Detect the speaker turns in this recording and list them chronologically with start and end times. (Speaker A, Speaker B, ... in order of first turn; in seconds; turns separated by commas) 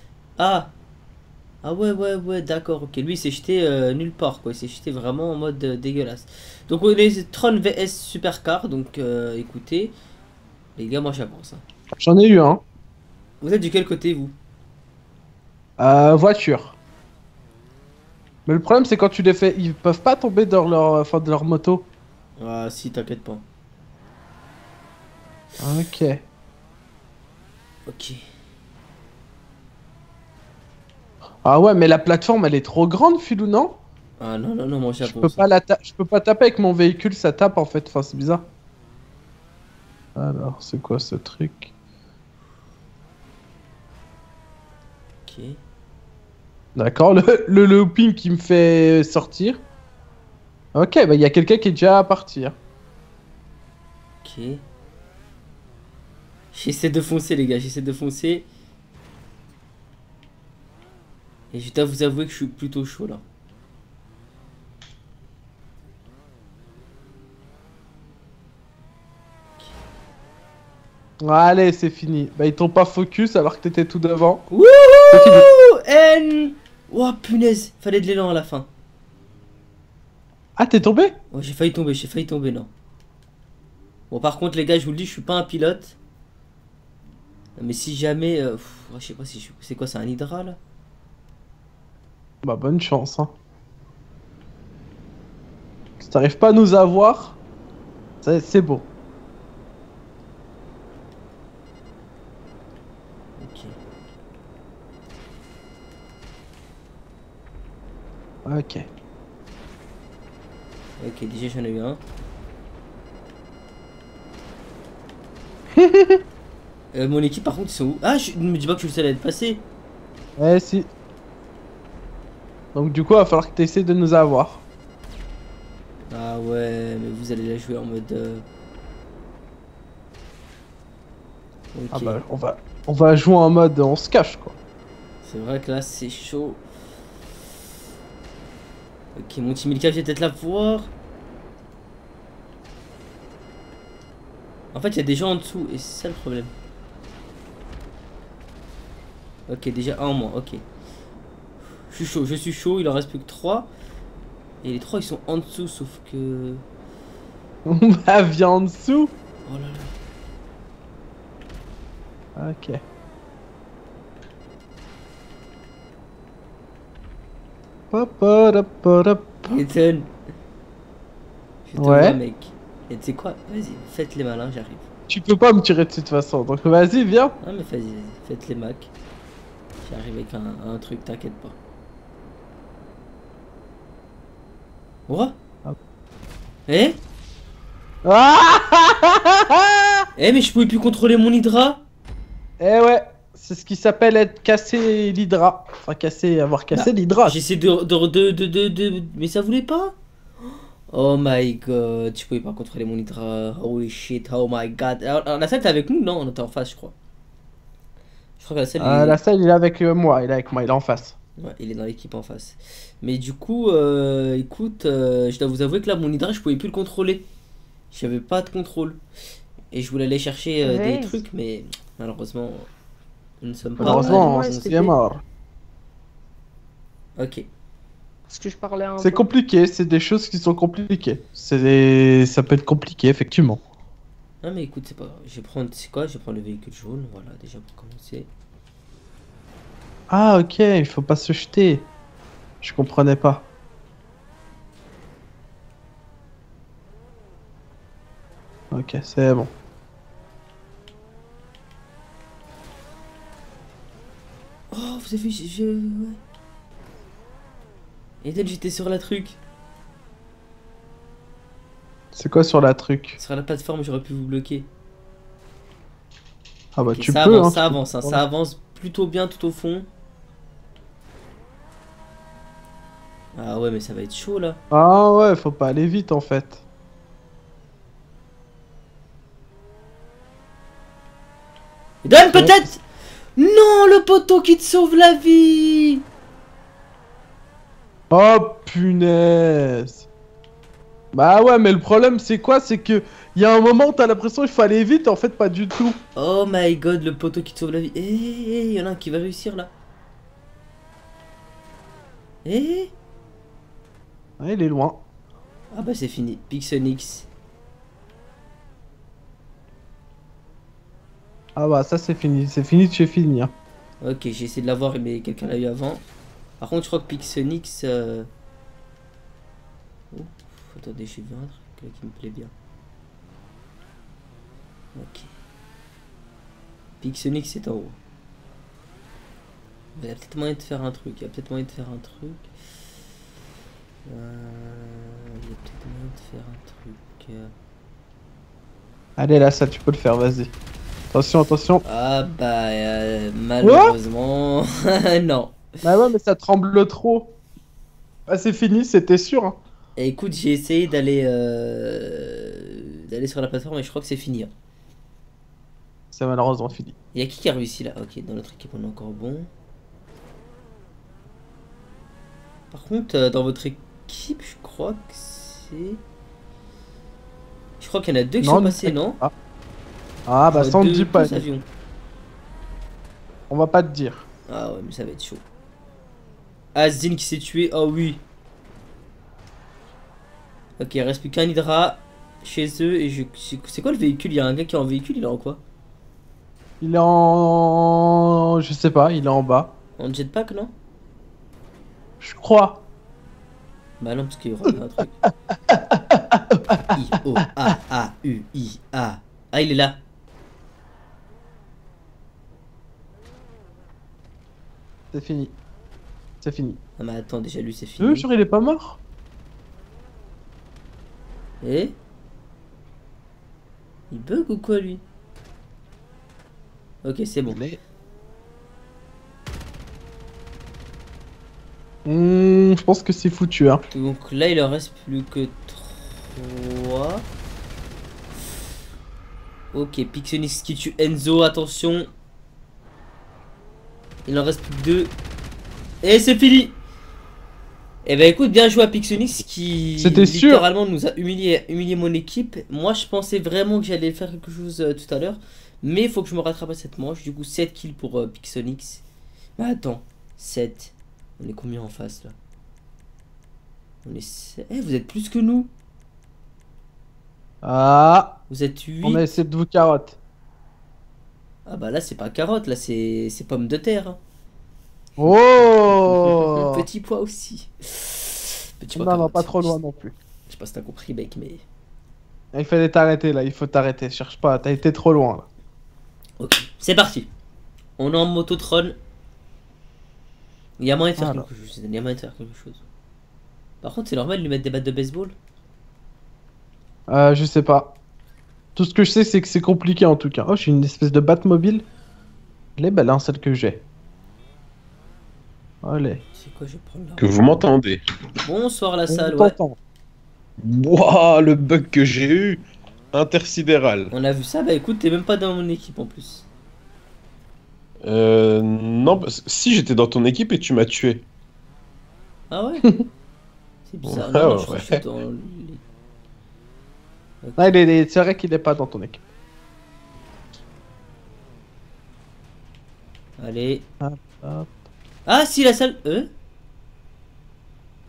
Speaker A: 0.4-0.7, Speaker A: 1.6-9.9, Speaker A: 10.8-11.6, Speaker B: 12.0-12.6, Speaker A: 13.4-14.4, Speaker B: 15.8-16.8, Speaker B: 18.5-21.9, Speaker A: 22.4-23.4, Speaker B: 25.6-26.2, Speaker A: 27.9-28.2, Speaker B: 31.4-33.8, Speaker A: 34.2-35.5, Speaker B: 35.0-38.5, Speaker B: 40.2-41.7, Speaker A: 45.2-45.6, Speaker B: 46.8-49.6, Speaker B: 50.8-52.6, Speaker A: 54.2-54.6, Speaker A: 56.5-58.5, Speaker A: 61.5-63.2, Speaker B: 71.2-74.5, Speaker A: 74.5-78.7, Speaker B: 75.1-75.5, Speaker B: 80.6-81.1, Speaker A: 81.3-82.7, Speaker A: 84.1-86.0, Speaker A: 87.6-90.6, Speaker B: 92.4-93.3, Speaker B: 96.0-97.4, Speaker B: 98.2-98.9, Speaker A: 103.4-103.8, Speaker B: 108.5-108.9, Speaker A: 111.0-112.0, Speaker B: 115.8-116.2, Speaker A: 116.9-119.6, Speaker B: 120.4-120.9, Speaker B: 122.7-124.6, Speaker A: 126.1-128.4, Speaker A: 131.7-132.2, Speaker B: 131.9-134.6, Speaker A: 135.2-136.6, Speaker A: 139.2-140.9, Speaker A: 144.7-146.5, Speaker A: 149.5-150.6, Speaker A: 151.9-153.7, Speaker A: 154.6-156.6, Speaker B: 157.7-159.2, Speaker A: 159.4-159.9, Speaker B: 162.3-162.8, Speaker B: 167.9-169.6, Speaker A: 169.5-170.1, Speaker A: 171.7-174.9, Speaker B: 171.8-172.2, Speaker B: 175.1-177.3, Speaker A: 177.4-178.9, Speaker A: 179.8-181.6, Speaker A: 185.1-185.3, Speaker A: 186.7-187.0, Speaker B: 188.0-190.0, Speaker A: 190.2-191.8, Speaker B: 192.6-197.4, Speaker A: 196.7-199.9, Speaker A: 200.9-206.9, Speaker A: 208.4-209.2, Speaker B: 208.8-211.2, Speaker A: 211.4-217.2, Speaker A: 217.9-219.0, Speaker A: 219.7-222.7, Speaker C: 220.6-221.2, Speaker A: 223.4-224.8, Speaker C: 223.8-224.9, Speaker B: 223.8-225.2, Speaker A: 227.2-227.5, Speaker C: 228.3-229.2, Speaker B: 229.0-233.6, Speaker A: 234.4-238.3, Speaker B: 240.1-241.9, Speaker B: 242.6-243.5, Speaker B: 248.7-249.5, Speaker A: 254.7-256.2, Speaker A: 258.2-259.4, Speaker B: 262.1-263.2, Speaker A: 263.2-264.7, Speaker B: 266.8-268.2, Speaker A: 266.9-269.9, Speaker A: 273.3-274.6, Speaker B: 274.7-276.6, Speaker A: 282.0-282.8, Speaker B: 282.3-282.6, Speaker A: 283.4-286.0, Speaker B: 288.1-290.1, Speaker B: 291.1-296.0, Speaker A: 296.2-299.7, Speaker A: 302.4-302.9, Speaker B: 304.4-305.0, Speaker A: 305.7-307.3, Speaker B: 311.6-313.5, Speaker A: 314.0-316.1, Speaker A: 316.6-318.3, Speaker A: 320.1-322.5, Speaker A: 324.9-325.3, Speaker A: 327.0-328.0, Speaker A: 329.9-332.5, Speaker A: 334.1-337.5, Speaker B: 339.2-340.5, Speaker B: 341.1-341.8, Speaker A: 341.9-345.6, Speaker B: 343.6-343.9, Speaker B: 345.8-347.4, Speaker B: 348.3-349.6, Speaker A: 350.0-354.5, Speaker B: 356.1-356.9, Speaker A: 357.1-359.5, Speaker A: 362.7-366.0, Speaker A: 367.8-369.2, Speaker B: 368.4-369.3, Speaker B: 370.3-371.4, Speaker A: 370.5-371.6, Speaker B: 373.5-374.3, Speaker A: 374.5-375.4, Speaker A: 376.8-378.2, Speaker A: 380.8-385.6, Speaker B: 386.8-389.8, Speaker A: 390.0-390.7, Speaker B: 392.2-392.9, Speaker A: 394.0-395.2, Speaker B: 395.7-396.9, Speaker A: 396.9-400.0, Speaker B: 405.1-405.6, Speaker B: 406.4-406.8, Speaker A: 407.0-408.3, Speaker B: 408.0-409.0, Speaker A: 411.6-412.0, Speaker A: 414.1-415.0, Speaker A: 417.0-417.6, Speaker B: 417.5-417.8, Speaker B: 422.1-423.8, Speaker A: 423.9-427.2, Speaker A: 429.7-432.1, Speaker A: 434.3-435.1, Speaker A: 436.0-436.8, Speaker A: 438.0-449.0, Speaker B: 440.0-440.7, Speaker A: 449.6-452.4, Speaker A: 454.0-455.7, Speaker B: 457.6-458.4, Speaker A: 458.5-459.4, Speaker B: 459.0-460.2, Speaker A: 461.7-464.2, Speaker B: 465.2-466.9, Speaker A: 465.2-469.8, Speaker B: 468.9-470.1, Speaker A: 470.5-471.6, Speaker B: 472.5-475.5, Speaker A: 476.4-477.3, Speaker A: 478.0-479.0, Speaker A: 480.8-482.8, Speaker B: 481.2-481.5, Speaker A: 483.8-485.4, Speaker B: 487.1-488.0, Speaker B: 488.8-491.9, Speaker B: 492.8-493.8, Speaker B: 495.8-496.2, Speaker A: 496.3-497.4, Speaker D: 497.2-498.0, Speaker A: 498.4-499.6, Speaker B: 499.1-499.8, Speaker D: 500.6-504.1, Speaker A: 504.1-506.5, Speaker D: 508.0-511.3, Speaker A: 512.5-512.9, Speaker A: 513.9-515.8, Speaker D: 514.0-515.0, Speaker A: 517.4-517.7, Speaker B: 517.6-519.2, Speaker A: 523.4-523.9, Speaker B: 524.0-524.7, Speaker A: 525.2-526.3